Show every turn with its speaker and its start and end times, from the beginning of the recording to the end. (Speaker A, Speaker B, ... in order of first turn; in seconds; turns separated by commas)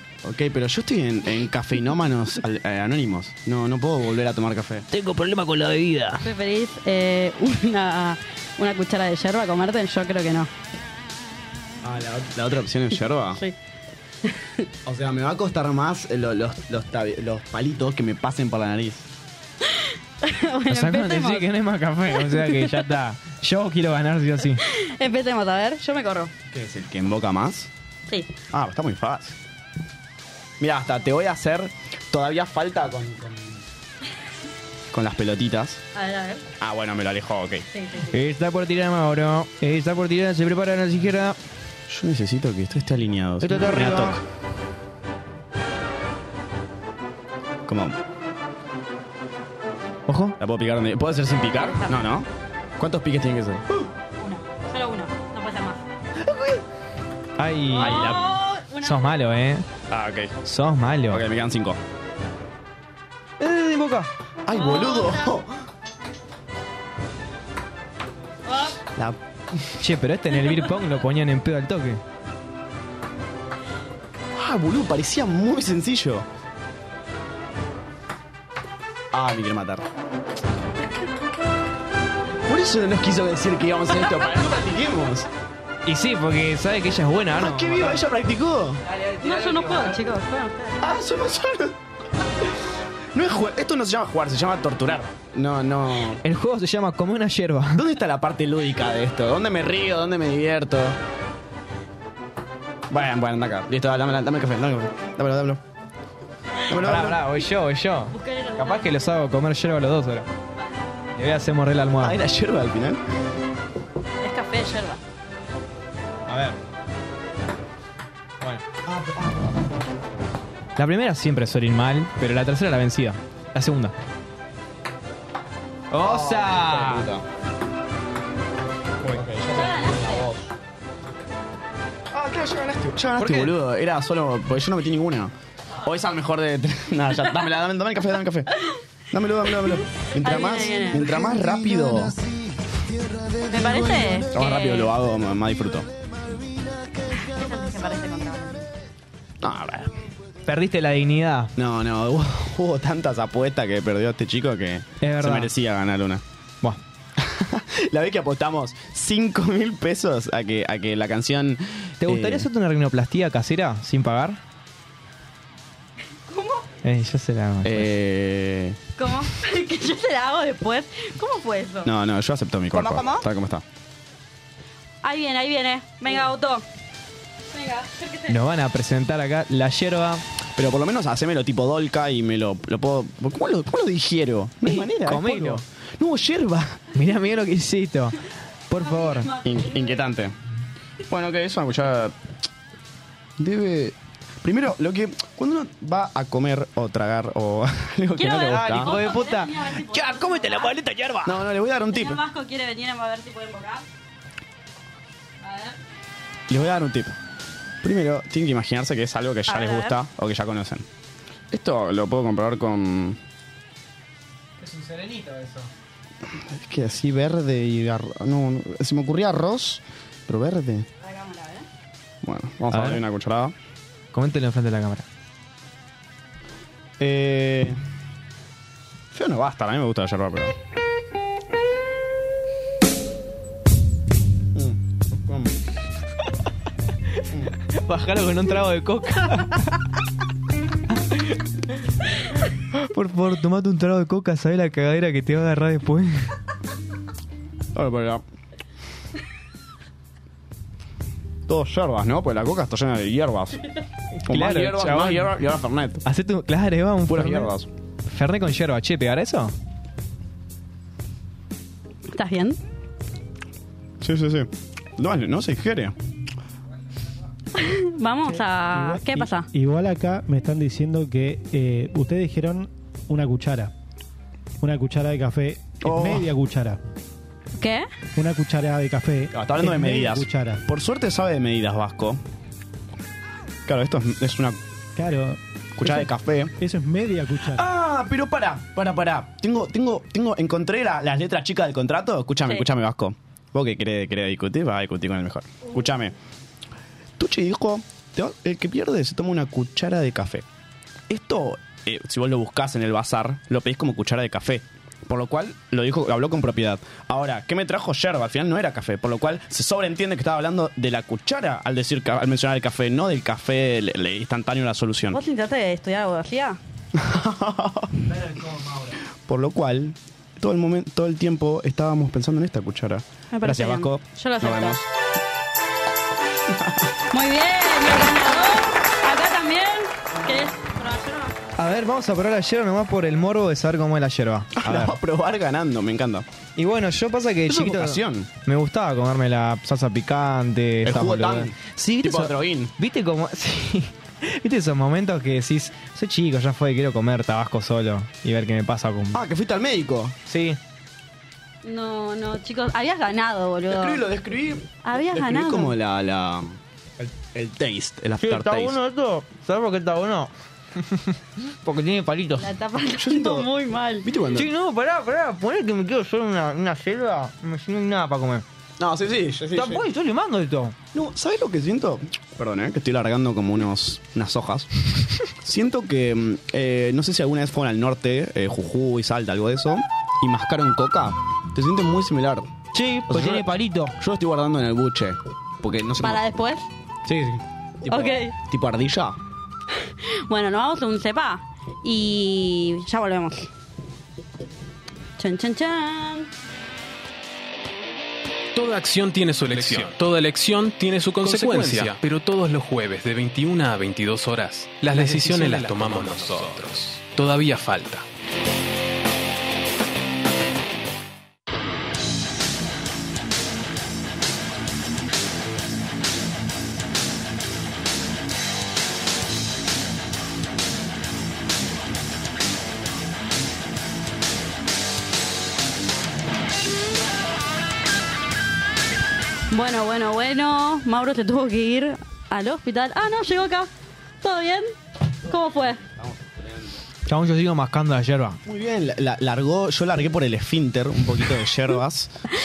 Speaker A: 0.2-4.9, Speaker B: 4.9-6.3, Speaker C: 6.2-10.5, Speaker A: 11.8-13.4, Speaker C: 13.3-13.6, Speaker C: 14.2-14.6, Speaker A: 14.9-19.1, Speaker C: 20.2-21.5, Speaker B: 20.7-24.6, Speaker C: 22.1-22.9, Speaker C: 24.6-26.3, Speaker A: 26.5-27.7, Speaker C: 28.1-28.3, Speaker A: 28.5-29.4, Speaker A: 30.6-33.6, Speaker A: 34.9-35.8, Speaker C: 35.9-36.4, Speaker A: 36.6-37.7, Speaker C: 37.7-38.2, Speaker B: 38.1-41.4, Speaker A: 41.9-44.2, Speaker B: 43.4-44.2, Speaker A: 47.7-48.0, Speaker B: 50.1-50.4, Speaker A: 50.4-53.8, Speaker C: 51.7-52.0, Speaker C: 54.2-55.8, Speaker B: 56.2-56.6, Speaker B: 57.4-58.3, Speaker C: 57.7-59.2, Speaker A: 57.8-58.3, Speaker B: 58.8-59.7, Speaker A: 59.9-60.4, Speaker B: 60.5-61.2, Speaker A: 61.1-61.8, Speaker B: 63.4-64.1, Speaker A: 64.5-65.5, Speaker C: 64.5-65.4, Speaker C: 68.5-68.8, Speaker A: 69.0-69.6, Speaker B: 69.8-72.0, Speaker A: 74.3-76.3, Speaker A: 79.1-79.9, Speaker A: 82.5-85.3, Speaker B: 85.9-88.0, Speaker A: 87.4-88.8, Speaker B: 88.9-90.0, Speaker C: 89.2-90.8, Speaker A: 90.8-91.8, Speaker A: 93.1-96.2, Speaker B: 96.2-97.8, Speaker A: 97.7-101.0, Speaker A: 102.9-105.6, Speaker A: 106.7-107.3, Speaker B: 106.8-110.3, Speaker C: 108.1-108.9, Speaker B: 111.2-112.2, Speaker A: 112.0-113.0, Speaker C: 114.2-115.0, Speaker B: 116.3-116.6, Speaker A: 118.9-119.4, Speaker B: 120.8-123.9, Speaker B: 125.9-127.1, Speaker A: 126.0-127.2, Speaker A: 129.1-130.5, Speaker C: 129.5-130.3, Speaker A: 132.1-138.5, Speaker B: 133.2-133.5, Speaker A: 139.1-142.2, Speaker C: 140.1-141.3, Speaker C: 143.5-144.9, Speaker A: 144.2-145.9, Speaker C: 147.1-148.7, Speaker A: 149.4-150.1, Speaker B: 150.5-151.5, Speaker A: 151.6-156.2, Speaker B: 155.0-155.5, Speaker A: 157.2-162.5, Speaker B: 162.0-164.4, Speaker C: 166.3-166.7, Speaker B: 166.8-167.9, Speaker A: 167.6-168.8, Speaker C: 169.0-171.9, Speaker A: 171.8-173.6, Speaker C: 172.8-173.2, Speaker C: 175.0-176.7, Speaker C: 177.5-178.4, Speaker B: 178.3-180.2, Speaker A: 180.6-186.8, Speaker B: 184.7-185.6, Speaker B: 186.9-189.3, Speaker C: 188.8-190.1, Speaker A: 189.4-190.4, Speaker A: 191.1-192.2, Speaker A: 193.4-199.0, Speaker C: 198.2-200.8, Speaker B: 198.4-201.4, Speaker A: 201.2-202.2, Speaker C: 201.8-203.9, Speaker C: 205.4-205.8, Speaker A: 206.5-207.2, Speaker A: 207.8-210.9, Speaker C: 209.5-210.0, Speaker A: 211.5-213.2, Speaker B: 214.6-215.7, Speaker A: 216.3-220.9, Speaker C: 221.0-221.7, Speaker A: 222.2-223.6, Speaker B: 222.7-223.0, Speaker B: 224.1-225.1, Speaker A: 227.0-227.8, Speaker A: 229.1-230.6, Speaker A: 234.6-235.6, Speaker B: 237.7-239.8, Speaker B: 242.7-246.3, Speaker A: 247.8-248.2, Speaker A: 251.5-253.6, Speaker B: 254.2-255.4, Speaker A: 254.3-256.0, Speaker B: 256.1-257.5, Speaker A: 257.1-257.7, Speaker B: 258.1-259.5, Speaker C: 262.1-262.6, Speaker A: 264.0-265.9, Speaker C: 267.6-269.5, Speaker D: 268.3-273.7, Speaker D: 274.6-276.8, Speaker A: 275.8-276.3, Speaker C: 277.6-277.9, Speaker D: 278.2-280.6, Speaker A: 279.3-282.2, Speaker A: 283.7-284.6, Speaker D: 285.0-287.7, Speaker A: 285.8-286.6, Speaker A: 287.5-296.1, Speaker A: 297.2-300.4, Speaker A: 301.1-315.2, Speaker C: 315.1-316.6, Speaker A: 316.9-318.1, Speaker B: 318.2-318.9, Speaker A: 319.2-324.9, Speaker C: 323.3-324.8, Speaker A: 326.5-326.8, Speaker C: 327.1-331.4, Speaker B: 331.6-335.0, Speaker A: 334.6-336.3, Speaker B: 336.6-349.2, Speaker A: 337.5-338.3, Speaker A: 340.9-342.7, Speaker A: 349.1-350.2, Speaker B: 350.3-350.6, Speaker C: 351.6-354.0, Speaker A: 353.7-358.8, Speaker C: 354.8-355.7, Speaker B: 358.2-360.3, Speaker B: 361.6-362.5, Speaker C: 362.4-364.1, Speaker A: 363.0-363.5, Speaker A: 364.0-364.5, Speaker B: 364.4-368.4, Speaker A: 368.8-369.8, Speaker B: 369.5-370.8, Speaker A: 370.9-374.7, Speaker A: 375.3-382.5, Speaker B: 382.7-383.9, Speaker A: 383.1-383.5, Speaker A: 384.0-386.2, Speaker C: 386.0-386.7, Speaker B: 387.1-387.4, Speaker A: 387.9-389.2, Speaker C: 387.9-388.3, Speaker C: 390.3-393.5, Speaker C: 395.2-396.3, Speaker E: 398.6-408.0, Speaker B: 401.2-401.9, Speaker B: 404.9-405.8, Speaker C: 429.5-433.7, Speaker C: 434.2-434.7, Speaker C: 435.3-435.8, Speaker A: 435.8-436.7, Speaker B: 437.1-438.4, Speaker A: 438.5-442.1